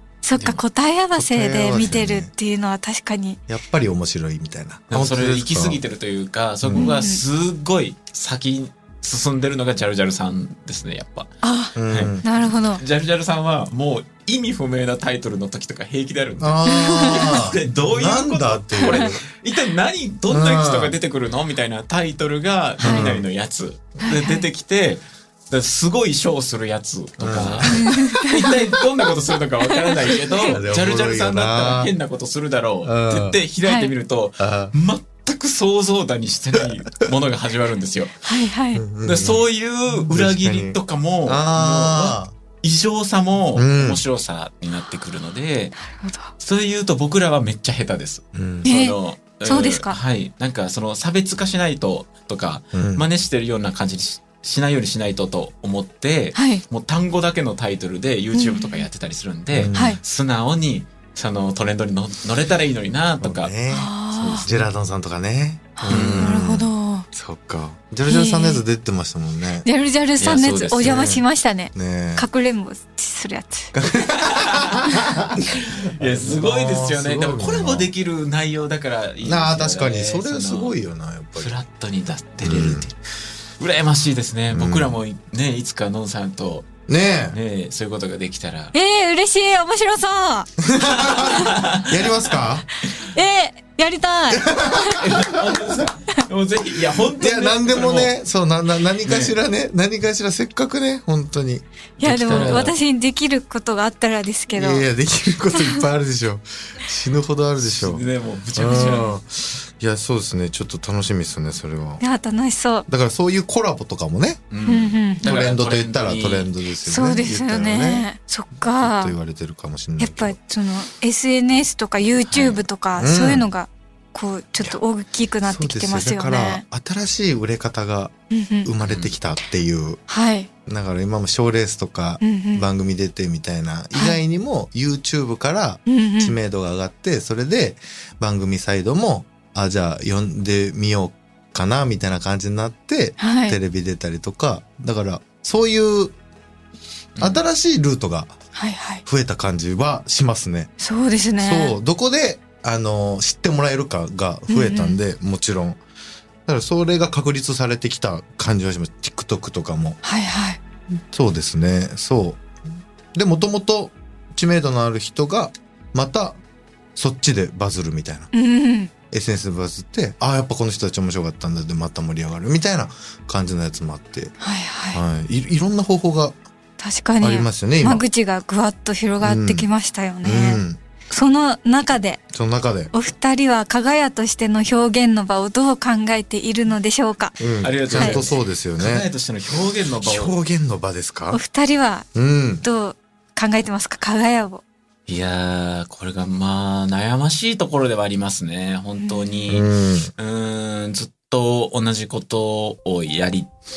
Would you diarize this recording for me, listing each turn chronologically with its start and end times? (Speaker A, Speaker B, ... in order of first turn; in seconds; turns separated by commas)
Speaker A: 0.2-3.4, Speaker B: 1.1-2.3, Speaker B: 3.5-5.8, Speaker C: 4.9-11.3, Speaker B: 6.6-6.9, Speaker A: 6.8-7.2, Speaker A: 11.4-12.8, Speaker B: 11.8-12.3, Speaker C: 11.9-12.2, Speaker C: 12.8-38.2, Speaker B: 16.4-19.2, Speaker A: 16.7-17.4, Speaker A: 18.8-19.1, Speaker B: 20.3-20.9, Speaker B: 22.8-23.3, Speaker A: 22.8-23.1, Speaker A: 24.0-24.4, Speaker B: 27.2-28.2, Speaker A: 27.7-28.5, Speaker A: 29.7-30.6, Speaker B: 30.4-31.9, Speaker B: 32.8-33.4, Speaker A: 33.6-33.9, Speaker B: 34.4-34.7, Speaker A: 38.2-38.8, Speaker B: 38.8-42.3, Speaker C: 39.0-45.8, Speaker B: 43.5-44.0, Speaker A: 45.8-46.3, Speaker C: 46.4-63.5, Speaker B: 48.3-48.7, Speaker A: 48.6-50.0, Speaker B: 52.7-53.1, Speaker A: 56.4-56.6, Speaker A: 58.3-58.9, Speaker B: 59.5-60.0, Speaker A: 59.7-60.0, Speaker B: 63.2-69.7, Speaker A: 63.7-64.5, Speaker C: 64.1-64.7, Speaker A: 65.8-67.1, Speaker C: 65.9-66.4, Speaker A: 68.1-68.6, Speaker A: 69.6-73.7, Speaker C: 70.2-71.1, Speaker B: 70.8-72.3, Speaker B: 73.7-77.9, Speaker C: 74.1-80.8, Speaker B: 79.2-81.6, Speaker C: 81.4-83.0, Speaker B: 82.4-82.9, Speaker C: 83.6-88.7, Speaker B: 84.5-85.0, Speaker B: 86.9-87.4, Speaker A: 88.7-90.5, Speaker B: 90.6-92.7, Speaker C: 90.8-92.3, Speaker A: 93.0-95.0, Speaker B: 94.3-95.9, Speaker C: 95.0-98.1, Speaker B: 97.1-102.7, Speaker C: 99.0-99.4, Speaker A: 102.0-104.9, Speaker C: 102.1-102.7, Speaker B: 104.5-108.0, Speaker C: 107.7-109.2, Speaker B: 108.6-112.0, Speaker A: 112.0-112.9, Speaker B: 112.9-114.4, Speaker C: 114.5-116.5, Speaker A: 114.7-115.2, Speaker B: 115.2-118.1, Speaker A: 116.8-119.2, Speaker B: 118.6-120.4, Speaker A: 120.0-126.6, Speaker C: 122.3-122.6, Speaker B: 123.0-123.5, Speaker B: 125.4-130.0, Speaker A: 128.3-128.7, Speaker C: 128.9-129.1, Speaker A: 130.1-130.5, Speaker B: 130.7-146.1, Speaker A: 132.2-132.7, Speaker A: 135.9-136.4, Speaker A: 143.2-143.6, Speaker C: 147.2-147.4, Speaker B: 147.2-148.3, Speaker A: 148.6-149.0, Speaker B: 149.1-150.7, Speaker A: 150.8-151.8, Speaker B: 151.4-155.8, Speaker A: 154.5-155.0, Speaker B: 156.5-160.0, Speaker A: 160.0-160.6, Speaker B: 161.0-162.4, Speaker B: 163.1-166.4, Speaker B: 167.0-168.3, Speaker A: 168.3-168.9, Speaker B: 169.1-174.3, Speaker A: 174.4-175.0, Speaker B: 174.9-176.3, Speaker A: 176.8-182.2, Speaker B: 177.2-178.1, Speaker B: 179.2-179.7, Speaker B: 180.2-180.8, Speaker B: 182.3-182.9, Speaker A: 182.9-188.2, Speaker B: 187.4-189.1, Speaker C: 187.6-190.3, Speaker B: 190.0-191.4, Speaker A: 191.3-192.1, Speaker B: 192.1-192.6, Speaker A: 192.6-194.6, Speaker C: 195.1-203.5, Speaker A: 199.0-199.3, Speaker B: 199.5-200.1